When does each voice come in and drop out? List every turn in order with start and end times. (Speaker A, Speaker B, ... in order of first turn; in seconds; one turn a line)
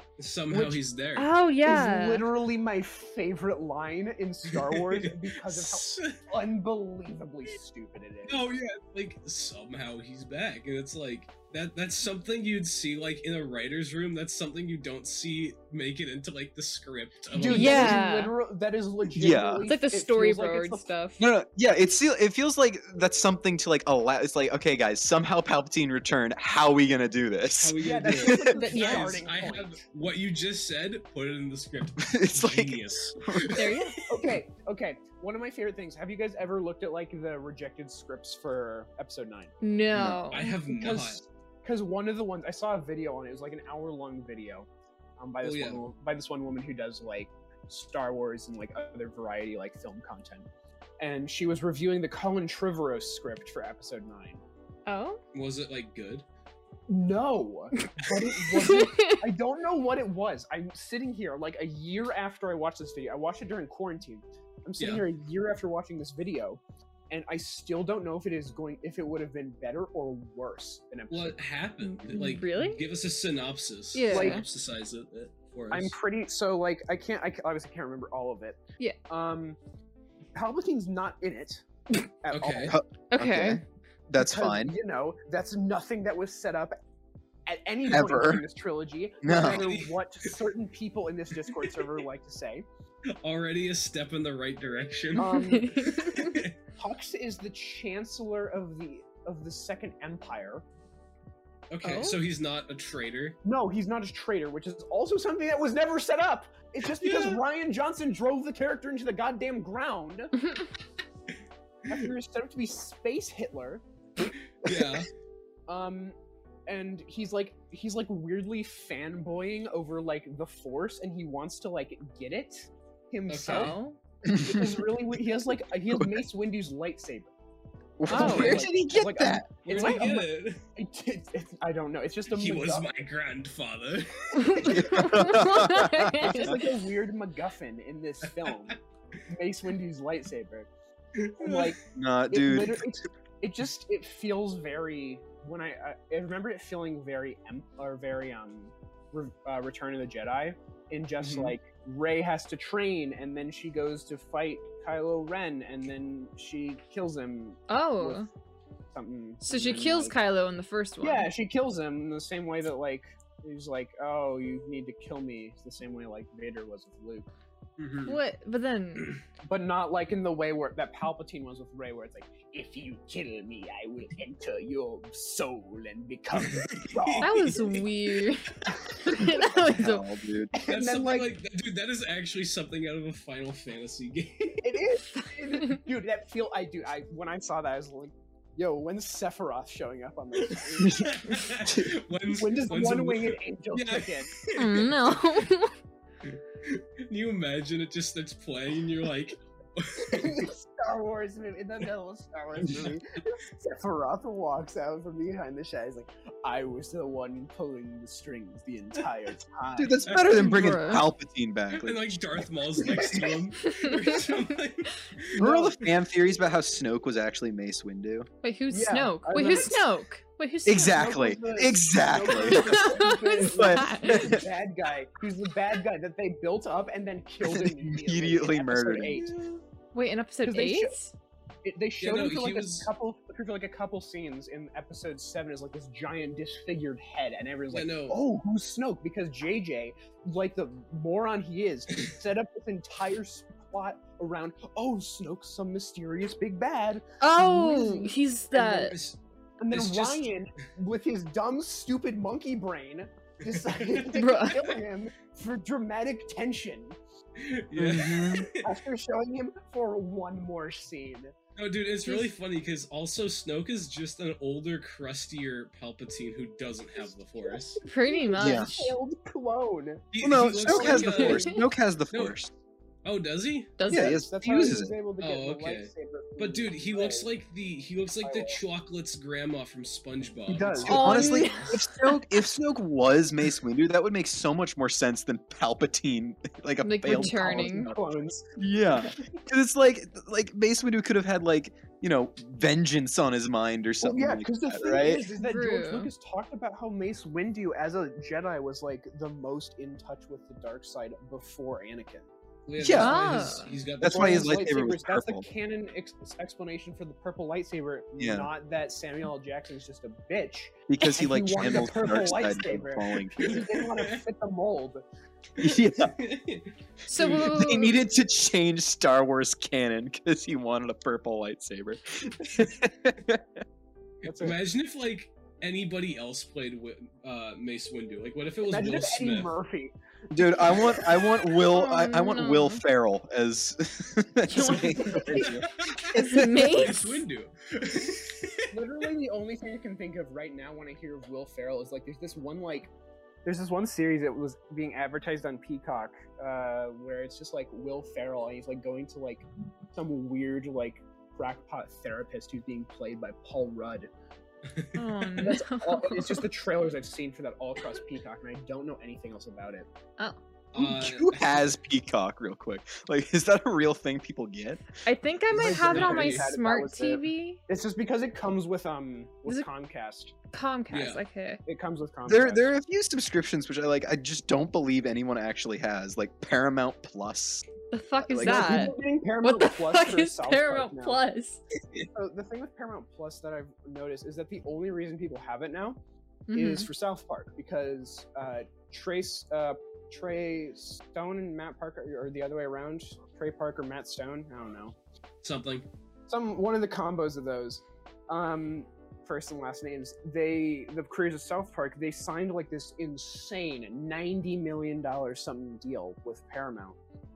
Speaker A: 0.2-1.3
Speaker B: 0.5-0.8
Speaker C: 1.2-2.2
Speaker B: 1.6-8.4
Speaker A: 4.5-6.2
Speaker A: 8.3-18.0
Speaker B: 17.3-20.9
Speaker C: 17.5-18.4
Speaker D: 19.2-19.7
Speaker C: 19.6-21.2
Speaker D: 21.2-28.6
Speaker A: 27.6-33.9
Speaker B: 27.8-29.8
Speaker C: 28.5-29.2
Speaker D: 32.0-33.7
Speaker C: 33.5-34.0
Speaker B: 34.1-39.5
Speaker C: 39.6-40.6
Speaker D: 39.9-40.2
Speaker A: 40.3-41.2
Speaker B: 40.7-50.5
Speaker A: 45.4-45.8
Speaker B: 51.0-54.4
Speaker C: 54.9-55.2
Speaker A: 55.3-56.2
Speaker B: 56.9-71.4
Speaker C: 58.5-59.2
Speaker A: 64.8-65.0
Speaker A: 71.1-76.0
Speaker C: 71.8-72.8
Speaker C: 73.9-74.4
Speaker B: 74.1-74.4
Speaker B: 75.7-79.6
Speaker B: 80.3-82.8
Speaker A: 82.3-82.8
Speaker D: 82.7-84.8
Speaker C: 83.1-83.6
Speaker B: 84.2-86.8
Speaker B: 87.5-92.7
Speaker D: 87.9-88.4
Speaker D: 89.2-89.7
Speaker A: 89.4-90.4
Speaker A: 91.5-91.9
Speaker A: 93.2-96.5
Speaker B: 95.2-95.8
Speaker C: 95.2-96.4
Speaker B: 96.7-100.6
Speaker A: 101.7-103.4
Speaker C: 101.8-102.2
Speaker B: 103.4-110.3
Speaker A: 107.0-107.4
Speaker B: 111.9-113.8
Speaker A: 114.2-115.1
Speaker B: 115.7-116.2
Speaker B: 116.7-123.8
Speaker A: 123.3-123.8
Speaker C: 123.4-124.0
Speaker D: 124.3-124.9
Speaker B: 124.3-127.3
Speaker D: 125.9-126.2
Speaker D: 128.0-129.5
Speaker B: 128.1-132.9
Speaker C: 128.1-128.7
Speaker A: 129.7-130.6
Speaker C: 129.7-130.0
Speaker A: 132.3-134.8
Speaker C: 134.3-136.7
Speaker D: 134.6-136.5
Speaker B: 136.2-140.7
Speaker A: 138.4-138.7
Speaker A: 141.2-141.7
Speaker B: 141.4-158.3
Speaker D: 141.9-142.8
Speaker A: 151.2-151.5
Speaker C: 157.7-158.3
Speaker B: 158.9-160.2
Speaker C: 159.4-161.3
Speaker B: 161.0-167.3
Speaker A: 167.8-168.2
Speaker C: 168.1-169.1
Speaker B: 169.4-177.6
Speaker A: 176.4-178.7
Speaker C: 177.2-180.1
Speaker D: 179.2-180.5
Speaker B: 180.5-181.3
Speaker A: 180.7-184.8
Speaker B: 184.6-191.4
Speaker C: 185.2-185.8
Speaker A: 190.4-195.2
Speaker D: 190.8-191.9
Speaker B: 192.3-194.3
Speaker C: 194.6-195.8
Speaker A: 196.2-200.5
Speaker B: 200.1-210.2
Speaker A: 202.6-202.9
Speaker D: 209.8-213.4
Speaker A: 210.1-210.6
Speaker C: 210.3-211.1
Speaker A: 211.7-215.4
Speaker C: 213.6-214.5
Speaker D: 215.4-218.3
Speaker B: 215.4-215.8
Speaker C: 218.4-221.1
Speaker B: 218.7-219.9
Speaker D: 220.7-224.5
Speaker B: 220.8-229.3
Speaker C: 222.5-224.4
Speaker D: 227.4-229.3
Speaker C: 229.9-231.1
Speaker B: 230.4-231.0
Speaker B: 231.6-249.0
Speaker A: 232.0-232.9
Speaker A: 237.7-238.2
Speaker C: 247.2-249.0
Speaker A: 248.9-249.2
Speaker B: 249.6-257.0
Speaker A: 249.7-250.3
Speaker A: 253.7-254.1
Speaker C: 254.1-254.8
Speaker A: 257.4-258.7
Speaker D: 257.8-258.5
Speaker B: 258.5-261.3
Speaker A: 261.6-267.8
Speaker B: 267.0-271.5
Speaker C: 267.9-268.9
Speaker D: 268.4-268.7
Speaker A: 270.1-271.6
Speaker D: 270.2-272.5
Speaker C: 271.2-271.6
Speaker A: 273.1-273.8
Speaker C: 273.8-274.2
Speaker B: 273.9-277.3
Speaker D: 273.9-274.9
Speaker A: 275.2-281.7
Speaker B: 278.2-278.6
Speaker B: 280.5-281.1
Speaker D: 280.9-295.2
Speaker C: 280.9-282.2
Speaker C: 286.8-287.9
Speaker B: 287.1-288.5
Speaker B: 294.0-302.3
Speaker C: 295.2-296.1
Speaker A: 302.7-304.6
Speaker D: 302.8-303.3
Speaker C: 303.0-303.8
Speaker D: 304.0-305.5
Speaker B: 304.0-315.0
Speaker D: 308.2-308.5
Speaker D: 310.9-313.6
Speaker A: 313.4-314.2
Speaker D: 315.6-316.1
Speaker A: 316.0-317.6
Speaker C: 317.1-318.0
Speaker D: 317.2-323.6
Speaker B: 324.2-324.6
Speaker A: 324.3-329.5
Speaker B: 328.7-331.0
Speaker D: 330.3-336.9
Speaker C: 331.4-332.8
Speaker C: 334.5-337.2
Speaker A: 335.3-338.7
Speaker B: 338.7-342.9
Speaker B: 343.4-354.1
Speaker A: 354.7-355.3
Speaker C: 354.9-356.5
Speaker B: 355.4-359.9
Speaker A: 360.7-361.7
Speaker D: 360.8-364.9
Speaker C: 365.1-367.6
Speaker B: 365.5-370.3
Speaker A: 365.6-366.5
Speaker C: 370.5-371.6
Speaker A: 370.9-371.2
Speaker B: 371.7-372.7
Speaker D: 372.3-377.7
Speaker C: 377.9-381.6
Speaker D: 378.2-378.9
Speaker B: 378.4-381.2
Speaker B: 382.1-386.0
Speaker C: 386.5-386.9
Speaker B: 386.5-394.9
Speaker A: 395.4-395.9
Speaker B: 396.3-407.0